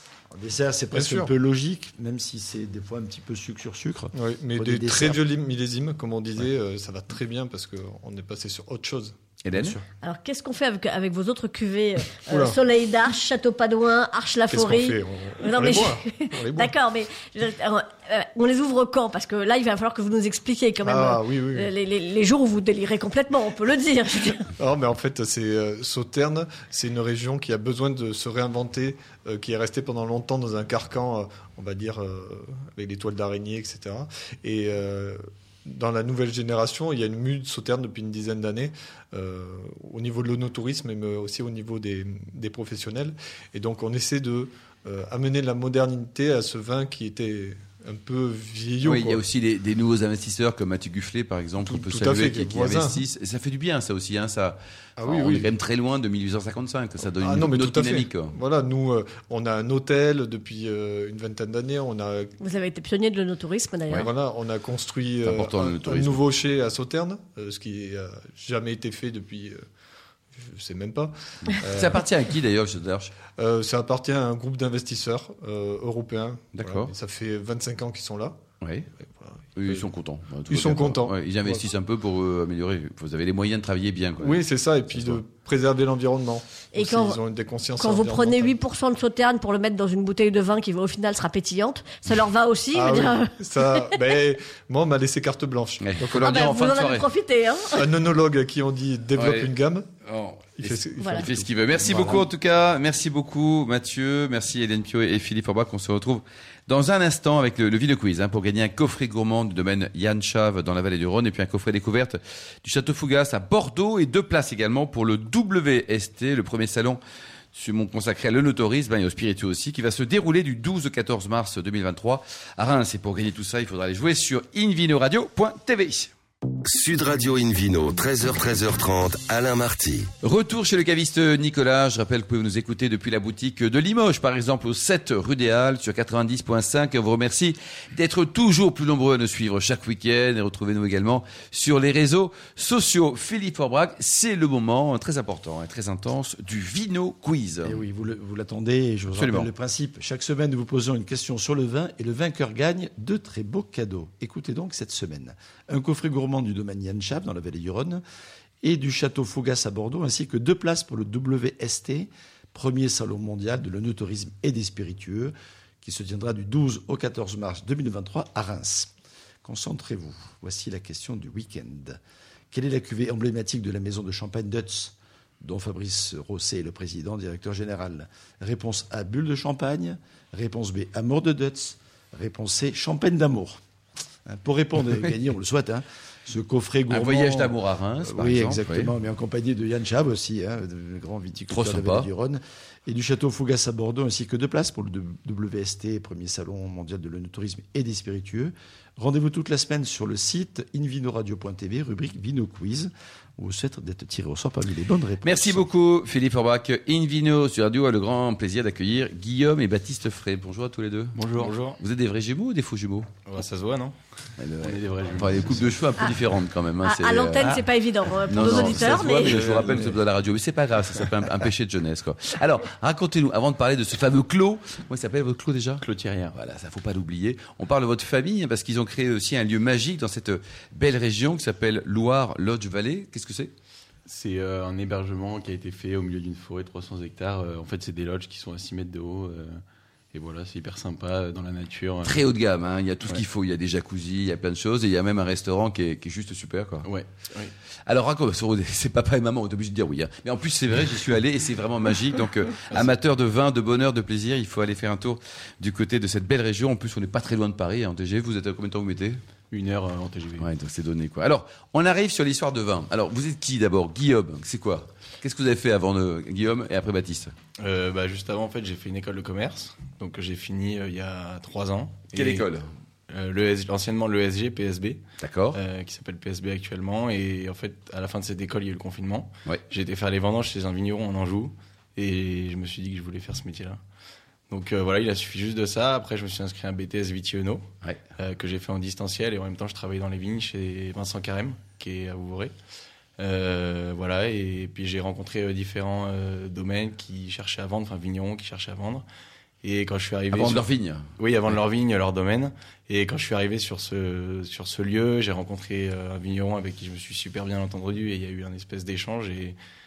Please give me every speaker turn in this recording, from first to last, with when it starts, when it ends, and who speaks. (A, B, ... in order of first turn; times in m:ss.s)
0:00.3-0:05.2 A
0:00.9-0:01.3 B
0:04.1-0:09.2 B
0:09.4-0:09.8 C
0:09.5-0:09.8 A
0:10.0-0:24.5 D
0:12.3-0:12.6 B
0:14.5-0:16.7 B
0:20.8-0:21.7 B
0:24.6-0:49.2 B
0:48.8-0:58.4 C
0:51.6-0:53.0 B
0:55.0-0:55.5 B
0:57.2-1:02.3 B
1:02.4-1:04.1 D
1:04.0-1:09.6 B
1:05.2-1:06.2 C
1:10.3-1:12.0 B
1:11.6-1:13.1 C
1:13.4-1:18.4 B
1:16.6-1:16.9 C
1:18.6-1:18.9 C
1:19.0-1:19.8 B
1:19.6-1:25.2 C
1:20.5-1:21.6 B
1:24.2-1:28.6 B
1:26.7-1:27.2 D
1:27.8-1:34.0 D
1:32.7-1:36.3 B
1:35.8-1:37.0 C
1:36.1-1:37.9 D
1:37.7-1:39.9 B
1:39.1-1:39.5 C
1:40.0-1:57.0 C
1:40.6-1:42.2 B
1:41.0-1:41.3 D
1:57.5-2:06.1 C
2:06.6-2:10.1 E
2:10.2-2:27.8 C
2:27.6-2:38.0 A
2:29.1-2:29.5 C
2:38.6-2:48.9 A
2:49.4-2:52.0 A
2:52.5-3:03.6 A
3:04.2-3:25.6 A
3:06.9-3:08.9 C
3:11.5-3:12.1 C
3:25.2-3:33.1 C
3:31.2-3:31.8 F
3:33.2-3:34.0 F
3:34.4-3:37.7 C
3:34.6-3:35.8 F
3:36.8-3:39.6 D
3:38.3-3:53.5 C
3:38.5-3:40.0 F
3:45.8-3:46.3 F
3:54.1-3:59.6 F
4:00.1-4:02.2 F
4:02.0-4:06.9 C
4:06.8-4:07.5 F
4:07.8-4:19.2 C
4:19.5-4:20.5 F
4:20.4-4:27.3 C
4:27.6-4:32.5 F
4:32.1-4:32.7 C
4:33.1-4:43.8 F
4:35.2-4:35.6 C
4:44.5-4:52.5 F
4:53.2-4:59.0 F
4:59.6-5:09.6 F
5:00.3-5:01.0 C